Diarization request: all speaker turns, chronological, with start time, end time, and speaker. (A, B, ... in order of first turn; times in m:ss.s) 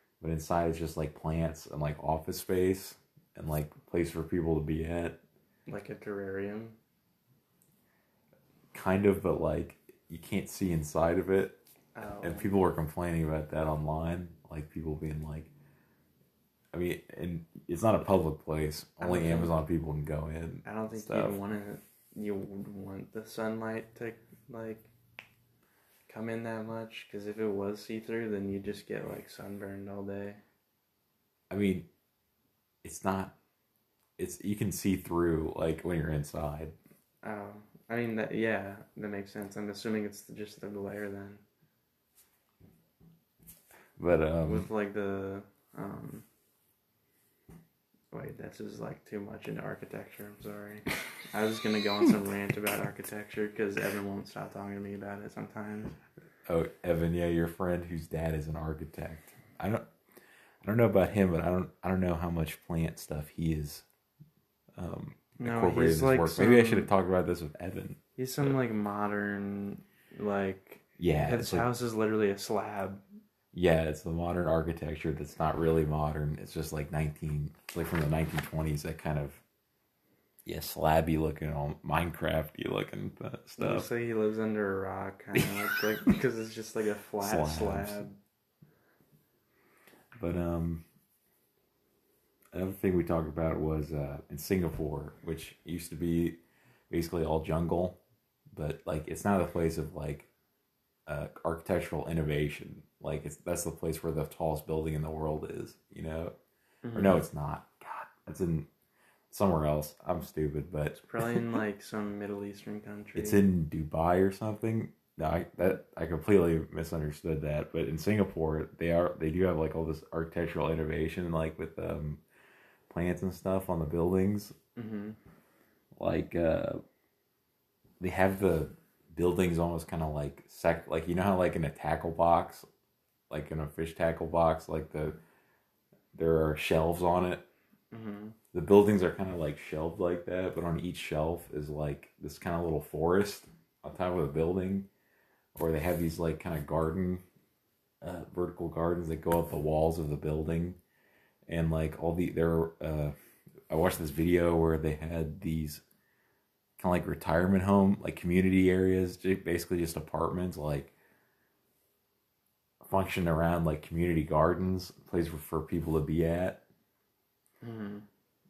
0:00.2-0:05.2 A
0:05.6-0:06.8 B
0:08.7-0:11.6 A
0:11.9-0:12.5 B
0:12.2-0:15.5 A
0:16.7-0:21.4 A
0:19.0-0:19.6 B
0:20.6-0:24.9 B
0:26.1-0:30.4 B
0:31.5-0:31.8 A
0:32.8-0:33.3 A
0:34.2-0:36.7 A
0:37.2-0:41.4 B
0:44.0-0:44.7 A
0:44.4-0:46.2 B
0:48.1-0:56.0 B
0:56.4-0:59.8 A
1:00.6-1:03.8 A
1:04.7-1:08.6 A
1:05.3-1:06.9 B
1:08.2-1:13.0 B
1:11.0-1:11.7 A
1:13.5-1:19.4 A
1:20.4-1:23.9 A
1:23.6-1:28.1 B
1:25.3-1:26.2 A
1:27.2-1:28.0 A
1:30.2-1:30.8 A
1:32.5-1:36.4 A
1:36.9-1:38.0 A
1:38.5-1:40.3 A
1:41.1-1:46.3 A
1:46.8-1:47.2 B
1:46.9-1:48.7 A
1:49.3-1:51.5 A
1:50.9-1:53.4 B
1:53.1-2:02.2 A
2:02.9-2:04.6 A
2:04.7-2:05.2 B
2:06.0-2:06.8 A
2:08.0-2:12.6 A
2:13.3-2:15.2 A
2:16.1-2:17.4 A
2:17.9-2:18.4 B
2:18.5-2:24.9 A
2:25.5-2:27.2 A
2:28.0-2:30.8 A
2:31.5-2:33.1 A
2:33.7-2:35.8 A
2:36.8-2:40.9 A
2:42.8-2:46.6 A
2:47.6-2:48.0 B